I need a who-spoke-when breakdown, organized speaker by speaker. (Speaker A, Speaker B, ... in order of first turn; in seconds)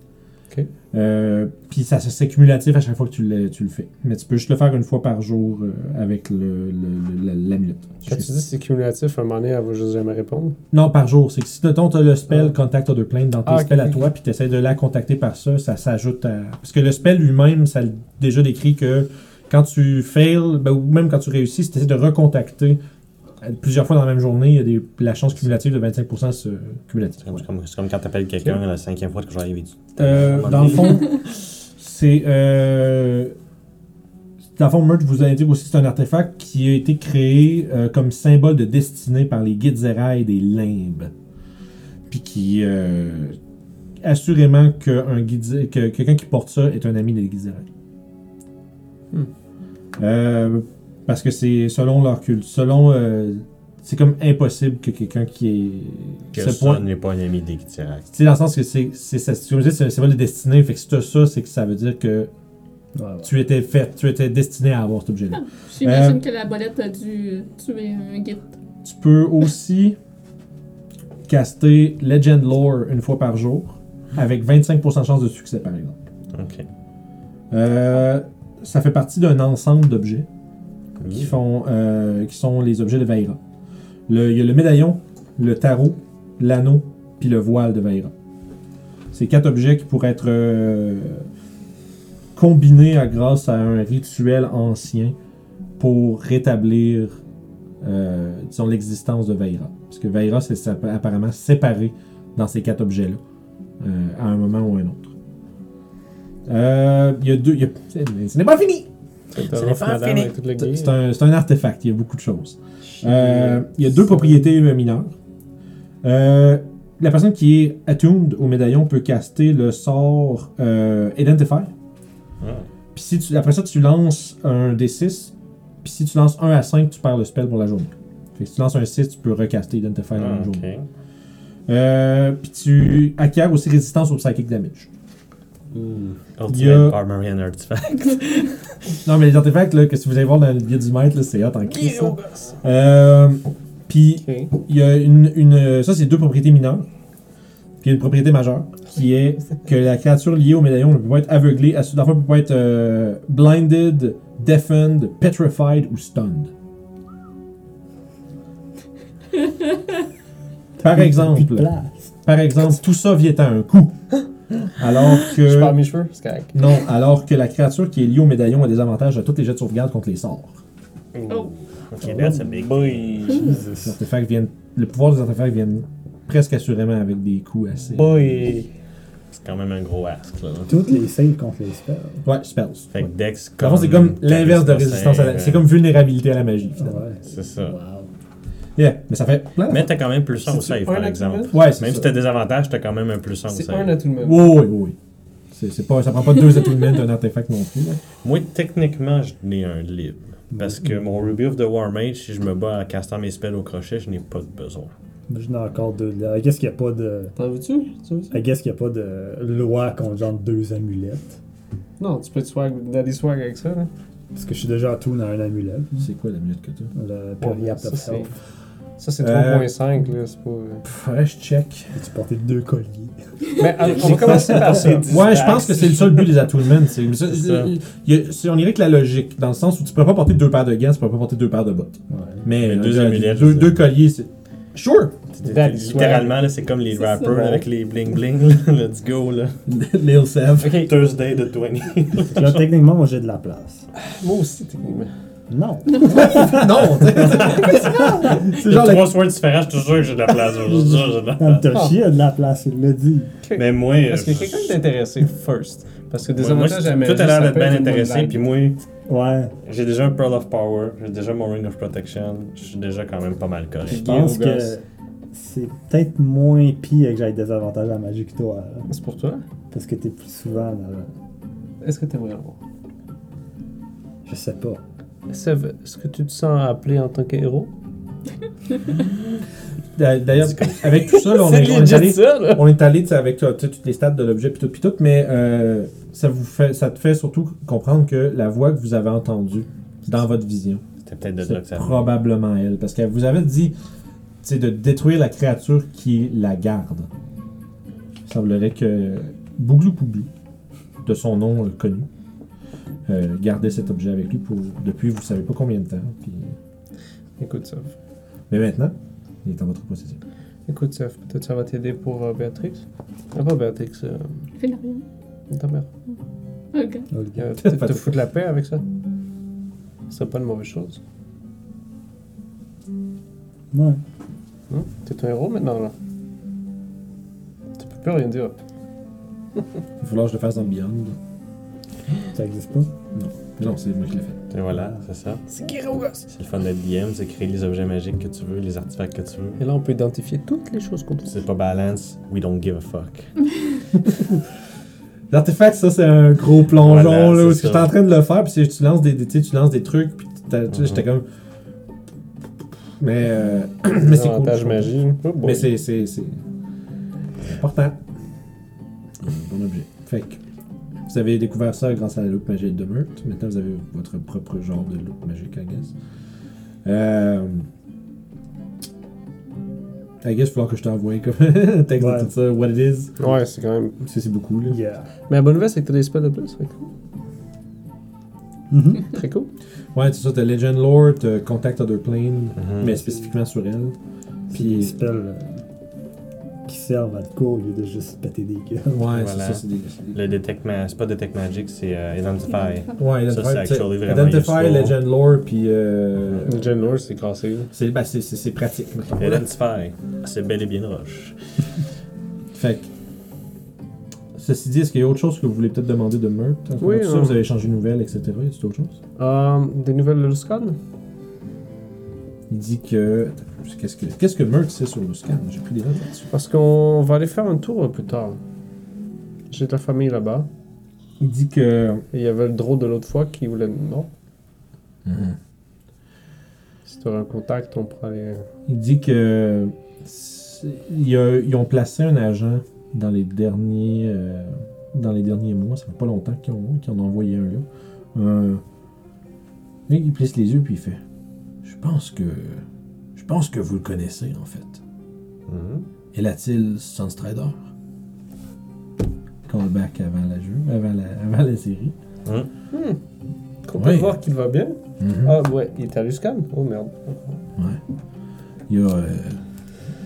Speaker A: 0.9-8.3, 10.7-22.8, 23.4-27.4, 30.0-33.3, 34.5-41.1, 42.1-43.4, 44.0-47.6, 50.0-56.8, 58.1-62.3, 63.2-66.2, 68.8-70.0, 71.3-76.0, 77.5-80.3, 81.1-83.4, 84.1-88.1, 89.1-91.3, 92.3-95.1, 95.8-97.2, 97.8-103.2, 103.8-105.1, 106.5-108.9, 110.6-115.1, 116.0-121.7, 122.9-130.7, 131.7-134.9, 136.5-137.0, 139.0-146.9, 147.8-156.5, 160.8-164.1, 164.7-165.8, 166.5-170.6, 173.8-178.3, 182.2-187.0, 188.8-189.9, 191.5-192.1, 194.2-194.9, 195.5-198.0, 216.0-216.9, 219.2-219.7, 220.8-221.9, 224.0-235.2, 239.7-240.8, 246.1-249.1, 279.9-290.8, 291.4-293.7, 294.4-297.1, 298.2-300.3, 301.0-302.1, 303.1-306.6, 308.5-310.2, 317.6-318.1, 330.0-331.2, 333.1-334.4, 344.0-344.4, 345.3-351.3, 353.0-356.4, 357.4-358.0, 359.2-360.4, 361.1-365.9, 366.8-367.7, 370.2-373.3, 374.0-374.8, 379.9-383.9, 384.5-384.9, 388.9-390.2, 393.0-396.7, 397.7-399.4, 402.5-402.9, 404.3-408.9, 412.5-416.3, 421.2-422.0, 425.0-425.4, 428.7-438.6, 439.9-441.0, 441.6-442.6, 443.1-444.8, 446.1-447.7, 449.4-451.9, 453.8-454.1, 455.0-455.4, 458.7-459.4
Speaker B: 8.1-10.6, 13.4-14.1, 109.3-111.0, 113.0-114.5, 141.8-142.5, 144.2-144.5, 165.3-166.7, 171.1-171.4, 172.3-173.6, 177.9-178.7, 190.4-191.6, 193.5-194.5, 207.3-208.3, 212.0-213.9, 217.4-218.3, 219.0-220.8, 223.6-225.7, 235.4-236.4, 237.3-237.6, 240.6-240.9, 244.0-245.1, 251.7-252.0, 253.4-258.4, 263.9-264.7, 268.9-269.4, 271.8-272.6, 275.3-277.7, 280.9-282.7, 307.4-307.9, 310.7-314.4, 315.5-315.9, 317.4-318.8, 320.1-321.0, 324.7-325.9, 327.8-328.6, 335.5-336.3, 339.6-341.3, 354.0-355.7, 373.2-373.9, 375.3-376.9, 379.0-379.5, 396.4-397.7, 406.8-407.4, 409.2-410.8, 416.3-418.4, 419.5-420.5, 422.1-424.1, 426.9-428.5, 452.7-453.0, 453.6-457.4
Speaker C: 27.2-31.1, 56.3-58.1, 76.3-76.7, 81.0-81.3, 109.4-110.3, 122.4-122.7, 130.1-130.8, 135.7-138.9, 171.3-173.5, 179.3-180.7, 182.9-185.6, 187.2-187.8, 189.7-194.0, 198.2-204.9, 224.8-226.3, 227.3-227.7, 232.6-233.8, 235.3-239.6, 240.6-242.6, 247.2-251.7, 253.5-254.8, 256.4-258.8, 259.6-264.3, 291.0-292.1, 334.5-335.4, 336.3-339.6, 341.2-343.3, 346.8-347.9, 350.7-351.0, 382.6-382.9, 389.1-395.0, 399.2-401.4, 445.5-445.9
Speaker D: 63.0-63.3, 160.8-162.1, 172.0-172.6, 173.4-173.9, 180.7-182.2, 186.8-188.1, 200.5-201.0, 205.3-207.3, 208.3-211.4, 214.3-216.1, 216.9-218.3, 221.9-225.0, 232.1-232.4, 242.3-243.8, 245.5-248.4, 250.7-253.3, 259.1-259.5, 263.9-268.9, 269.7-271.1, 274.2-274.8, 317.1-317.5, 323.7-324.0, 332.3-332.9, 334.7-335.0, 372.0-372.3, 374.7-375.1, 378.7-379.1, 384.5-385.6, 386.6-389.0
Speaker E: 65.3-68.5, 171.3-171.5, 236.9-237.5, 314.6-315.0, 316.7-317.1, 392.7-393.1